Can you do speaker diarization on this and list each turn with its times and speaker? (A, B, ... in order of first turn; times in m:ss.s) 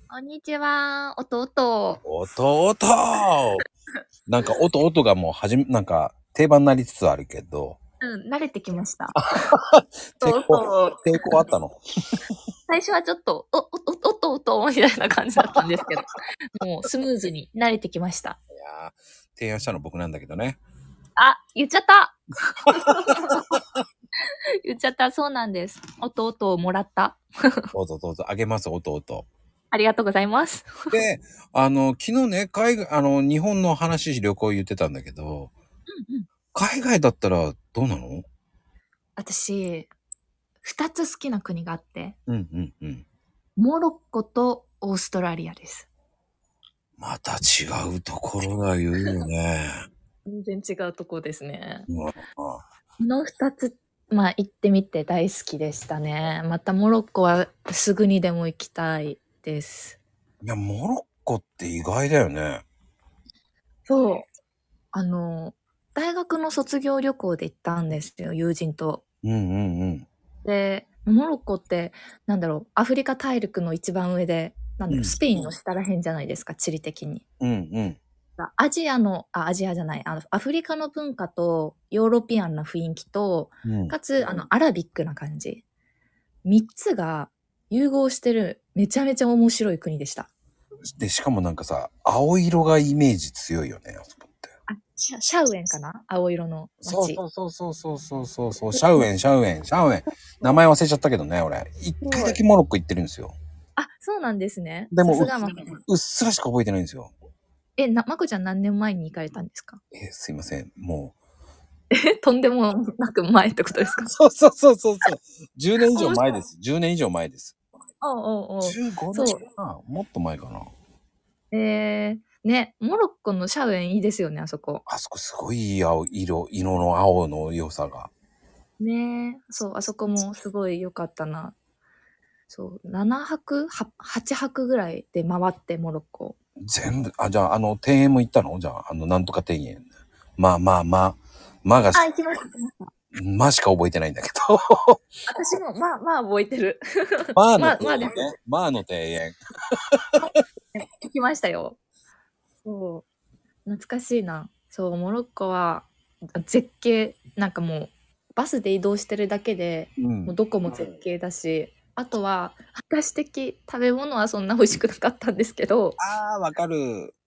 0:00.1-0:02.0 A
0:02.0-0:03.6 B
0:04.3-0:07.8 B
0:08.0-0:09.5 A
0:09.2-0:12.1 B
0:10.2-0:11.2 A
0:12.7-0:18.4 A
0:18.5-0:20.6 B
0:21.2-0:23.6 A
0:24.6-0:27.7 A
0:27.7-0:29.3 B
0:29.7-0:31.0 A
0:30.9-0:35.5 B
0:35.9-0:36.3 A
0:36.5-0:38.2 B
0:39.2-0:39.9 A
0:40.6-0:42.2 A
0:42.3-0:43.0 B
0:43.6-0:45.9 A
0:47.0-0:49.8 B
0:50.3-0:51.9 A
0:51.9-0:52.6 B
0:53.0-1:00.0 A
1:00.4-1:02.6 B
1:03.9-1:04.2 A
1:04.9-1:09.0 A
1:09.2-1:10.1 B
1:10.4-1:17.2 A
1:14.9-1:15.2 B
1:17.4-1:18.0 B
1:18.4-1:25.6 A
1:23.6-1:24.0 B
1:26.4-1:30.3 A
1:30.9-1:34.5 B
1:34.7-1:37.2 A
1:36.8-1:43.4 B
1:38.7-1:39.1 A
1:42.0-1:42.4 A
1:43.8-1:45.7 A
1:44.9-1:47.1 B
1:47.8-1:49.8 A
1:49.9-1:51.2 B
1:51.9-1:54.1 A
1:54.0-1:57.6 B
1:55.9-1:56.4 A
1:58.0-1:59.4 A
1:58.6-2:00.7 B
2:01.5-2:04.8 A
2:04.9-2:08.1 B
2:08.8-2:11.6 A
2:12.5-2:16.4 A
2:16.7-2:19.8 B
2:20.4-2:22.0 B
2:21.9-2:22.9 A
2:23.1-2:25.0 B
2:25.3-2:28.2 A
2:27.4-2:29.4 B
2:30.2-2:31.8 A
2:32.6-2:33.0 A
2:33.7-2:46.0 A
2:40.0-2:40.9 B
2:46.0-2:47.1 B